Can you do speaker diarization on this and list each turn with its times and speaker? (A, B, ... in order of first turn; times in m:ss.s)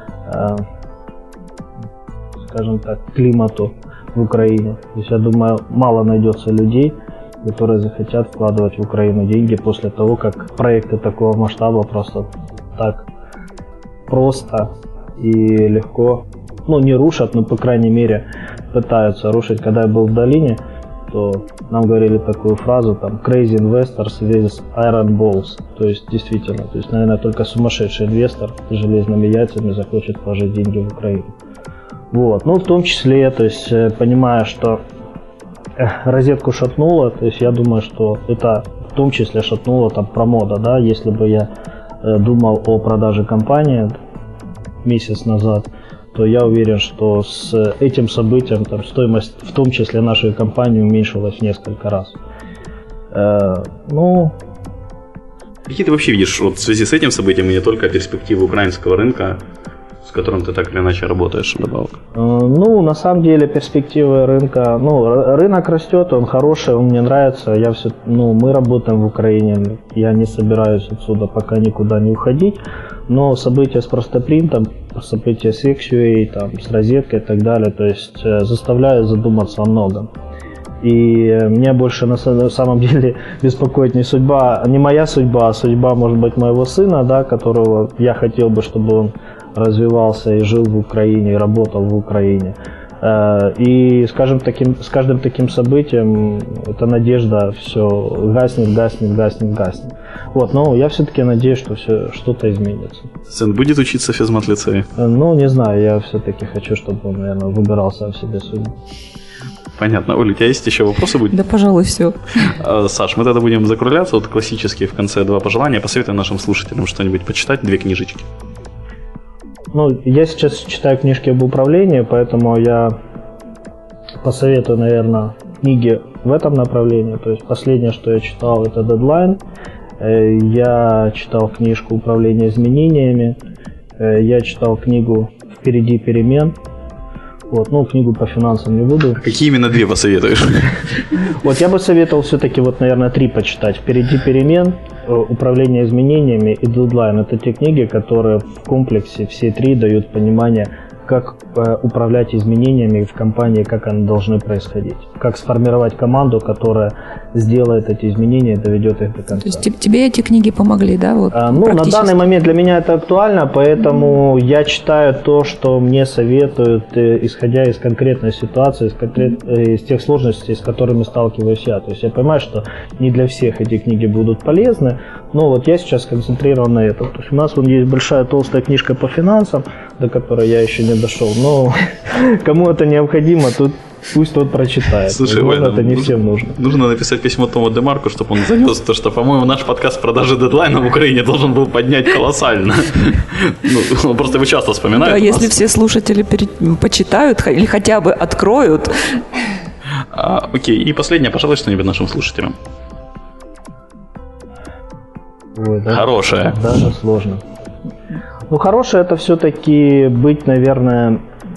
0:00.2-0:00.6 A
0:02.4-0:13.1 A
0:14.1-0:31.3 A
0:32.1-0:34.8 A
0:35.8-0:41.5 A
0:42.0-0:44.0 A
0:44.8-0:52.2 A
0:53.1-0:54.4 A
0:55.7-0:59.4 B
1:00.0-1:02.0 B
1:02.1-1:20.1 A
1:20.8-1:43.1 A
1:43.3-1:44.9 B
1:45.0-1:48.8 A
1:49.8-1:51.4 B
1:51.3-1:52.5 C
1:52.4-1:58.3 B
1:59.7-2:03.0 A
2:04.2-2:09.4 A
2:10.0-2:13.4 A
2:14.0-2:16.6 A
2:17.5-2:19.2 A
2:19.2-2:20.8 B
2:21.4-2:39.6 A
2:39.4-2:42.1 C
2:41.3-3:06.6 A
3:05.1-3:15.5 B
3:15.0-3:19.2 C
3:20.1-3:22.6 B
3:25.6-3:27.4 A
3:25.9-3:26.8 B
3:28.5-3:31.2 A